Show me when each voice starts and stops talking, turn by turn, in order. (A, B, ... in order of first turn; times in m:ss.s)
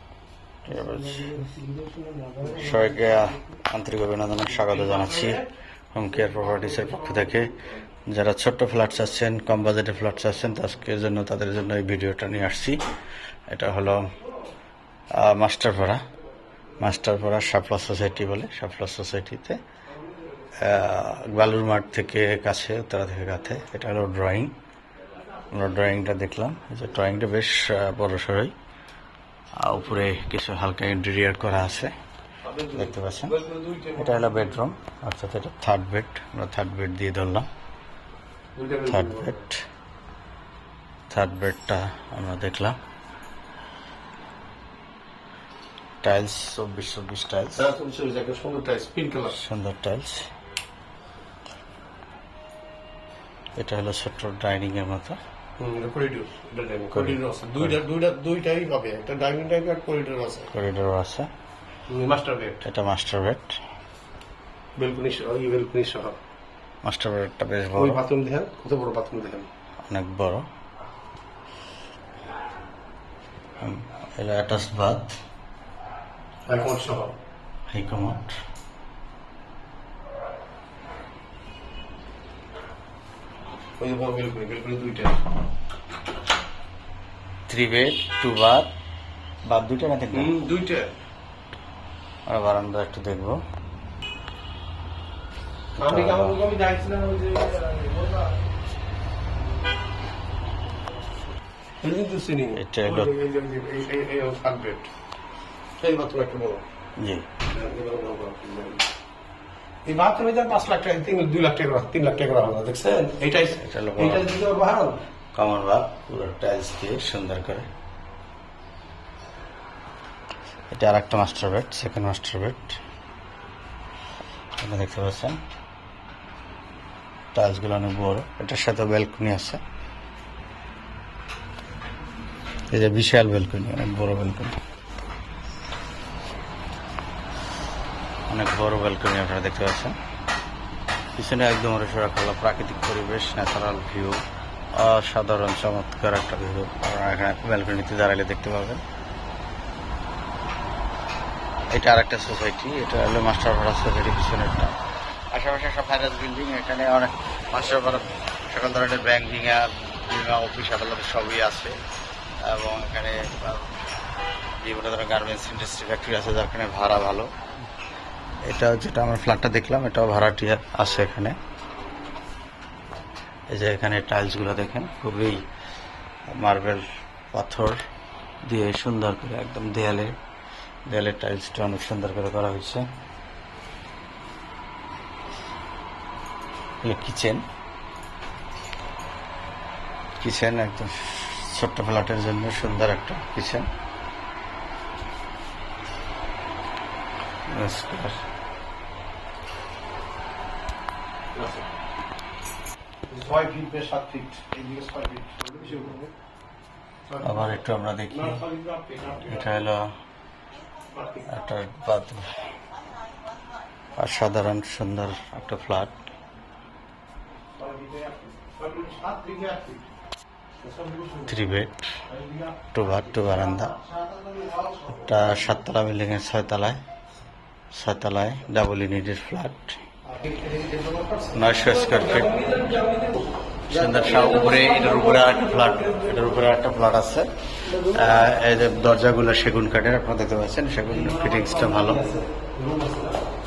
0:00.7-0:01.5 A
0:01.0-0:03.1 B
0:02.4-0:12.8 A
0:04.6-0:05.5 B
0:06.2-0:07.7 B
0:13.5-0:14.1 A
0:15.1-0:16.0 A
0:16.8-0:19.6 A
0:20.6-0:24.6 A
0:25.5-0:28.5 A
0:29.6-0:31.9 A
0:32.4-0:34.6 B
0:32.7-0:33.4 A
0:33.9-0:37.5 A
0:38.5-0:39.4 B
0:38.9-0:39.6 A
0:41.1-0:42.8 A
0:46.0-0:47.7 A
0:47.6-0:49.4 B
0:49.3-0:50.3 A
0:53.6-0:55.2 A
0:55.6-1:00.5 B
0:56.9-0:57.8 A
1:00.5-1:01.3 A
1:01.9-1:02.6 B
1:02.6-1:03.6 A
1:04.8-1:06.2 B
1:06.8-1:08.0 A
1:07.8-1:09.5 B
1:09.9-1:10.5 A
1:13.6-1:15.2 A
1:16.5-1:17.2 B
1:17.7-1:18.4 A
1:23.8-1:25.3 B
1:27.5-1:28.7 A
1:29.5-1:30.4 A
1:30.1-1:30.9 B
1:32.3-1:33.4 A
1:35.8-1:36.4 A
1:35.8-1:38.4 B
1:41.8-1:44.9 B
1:42.6-1:43.1 A
1:45.8-1:46.6 B
1:47.0-1:47.3 A
1:47.5-1:48.8 B
1:49.8-1:55.0 B
1:53.6-1:54.3 A
1:55.3-1:57.7 A
2:00.7-2:02.8 A
2:04.6-2:05.4 A
2:07.3-2:09.6 A
2:12.7-2:14.6 A
2:18.3-2:20.0 A
2:21.2-2:24.2 A
2:24.8-2:28.8 A
2:31.7-2:34.8 A
2:35.3-2:41.8 A
2:42.4-2:43.7 A
2:44.6-2:47.3 A
2:48.5-2:51.4 A
2:53.5-2:55.4 A
2:56.3-2:57.8 A
2:58.5-3:00.2 A
3:00.9-3:02.8 A
3:06.8-3:07.4 A
3:10.2-3:13.7 A
3:17.5-3:18.2 A
3:21.3-3:21.7 B
3:23.1-3:26.1 B
3:27.1-3:29.6 B
3:27.2-3:28.4 A
3:29.2-3:29.9 A
3:30.9-3:31.4 B
3:31.3-3:32.4 A
3:34.0-3:36.0 A
3:37.6-3:39.9 B
3:40.6-3:41.4 B
3:41.3-3:41.8 A
3:42.7-3:43.8 A
3:43.7-3:45.2 B
3:44.9-3:46.8 A
3:47.7-3:49.8 A
3:50.1-3:51.4 B
3:51.3-3:52.6 A
3:52.4-3:53.2 B
3:53.7-4:02.1 A
4:02.4-4:03.2 B